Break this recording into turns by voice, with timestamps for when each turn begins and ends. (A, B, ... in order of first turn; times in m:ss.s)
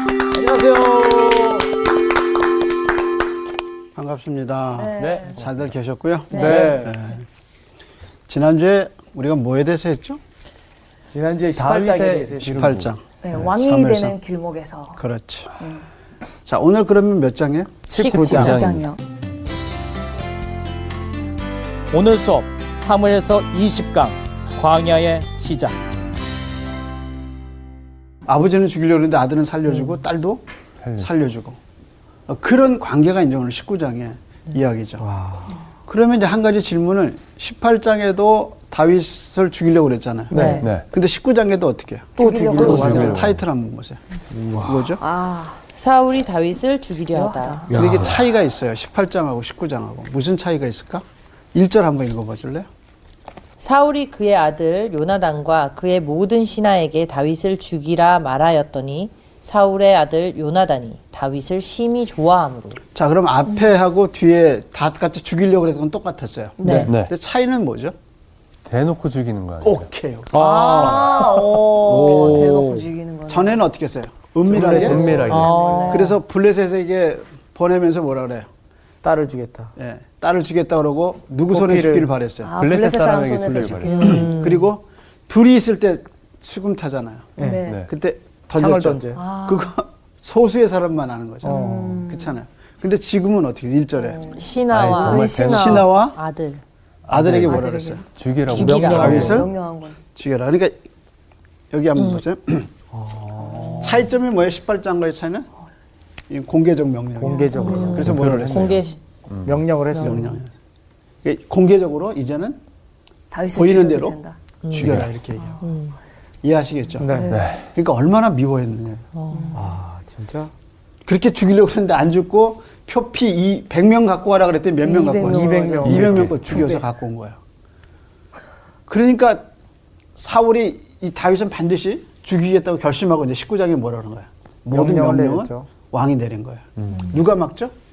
0:00.3-0:01.7 A
0:04.0-0:07.2 B
0:04.8-0:05.4 C
0:05.0-0:05.6 D
0:06.3-0:06.8 C
0:06.3-0:07.0 A
0:08.3-0:10.2 B
0:11.1-0:12.7 A
0:11.6-0:12.9 D
0:12.4-0:14.2 B
0:13.2-0:15.0 C
0:15.0-0:15.6 B
0:15.6-0:15.9 C
0:16.5-0:17.8 B
0:17.9-0:18.6 A
0:17.9-0:18.5 E
0:18.0-0:18.9 D
0:18.2-0:19.0 C
0:21.9-0:25.8 A
0:28.3-0:30.4 B
0:30.8-0:31.1 D
0:31.0-0:31.6 B
0:32.3-0:35.0 B
0:35.0-0:35.6 A
0:35.9-0:44.0 B
0:40.3-0:40.6 A
0:40.3-0:40.7 C
0:40.4-0:40.6 E
0:42.2-0:43.2 C
0:42.2-0:43.2 A
0:42.6-0:43.4 D
0:44.3-0:44.9 A
0:44.6-0:45.0 B
0:45.0-0:45.6 C
0:45.7-0:47.7 E
0:47.1-0:47.7 C
0:47.7-0:48.2 A
0:47.7-0:52.7 B
0:47.8-0:48.2 D
0:53.6-1:02.8 E
1:02.9-1:07.9 B
1:06.6-1:06.9 C
1:06.6-1:06.9 A
1:06.9-1:07.1 D
1:08.7-1:09.8 D
1:09.6-1:12.4 B
1:10.3-1:12.9 A
1:10.4-1:13.6 C
1:13.3-1:15.3 B
1:14.5-1:15.3 A
1:14.5-1:15.7 D
1:14.6-1:16.2 C
1:15.3-1:16.1 E
1:15.9-1:18.5 B
1:19.0-1:19.7 A
1:19.8-1:22.6 B
1:21.5-1:22.1 A
1:22.4-1:24.5 C
1:22.6-1:24.1 D
1:23.9-1:24.6 E
1:24.0-1:27.4 B
1:27.4-1:27.6 A
1:27.4-1:27.8 C
1:27.6-1:27.9 D
1:27.9-1:34.3 B
1:28.6-1:29.2 A
1:29.1-1:29.7 C
1:31.4-1:32.0 A
1:31.4-1:32.4 C
1:34.0-1:34.5 C
1:34.3-1:36.6 E
1:34.7-1:35.9 D
1:35.0-1:36.2 B
1:37.1-1:37.6 D
1:37.1-1:38.0 B
1:37.2-1:38.0 C
1:38.2-1:39.4 D
1:38.5-1:39.2 E
1:38.5-1:39.5 A
1:38.6-1:40.0 C
1:38.8-1:39.5 B
1:40.2-1:40.8 B
1:41.7-1:42.7 B
1:42.9-1:44.1 A
1:43.5-1:43.9 C
1:43.8-1:45.5 B
1:46.3-1:48.8 B
1:47.2-1:48.8 A
1:47.2-1:48.1 C
1:47.6-1:49.0 E
1:48.0-1:49.6 D
1:49.5-1:50.4 A
1:49.9-1:50.3 E
1:50.0-1:50.5 B
1:51.2-1:52.6 B
1:53.3-1:54.4 C
1:53.5-1:54.2 B
1:54.6-1:55.1 E
1:54.7-1:55.6 B
1:54.8-1:55.1 D
1:55.6-1:56.0 E
1:56.4-1:59.1 B
1:57.0-1:57.4 A
1:57.1-1:57.5 C
1:57.3-1:57.7 D
1:59.2-1:59.6 E
1:59.3-1:59.6 C
1:59.5-2:00.5 A
2:01.1-2:07.4 B
2:04.8-2:06.8 C
2:05.2-2:06.7 A
2:06.0-2:06.4 D
2:08.9-2:09.5 B
2:10.2-2:17.7 B
2:14.7-2:15.7 A
2:16.8-2:17.2 D
2:16.9-2:17.2 C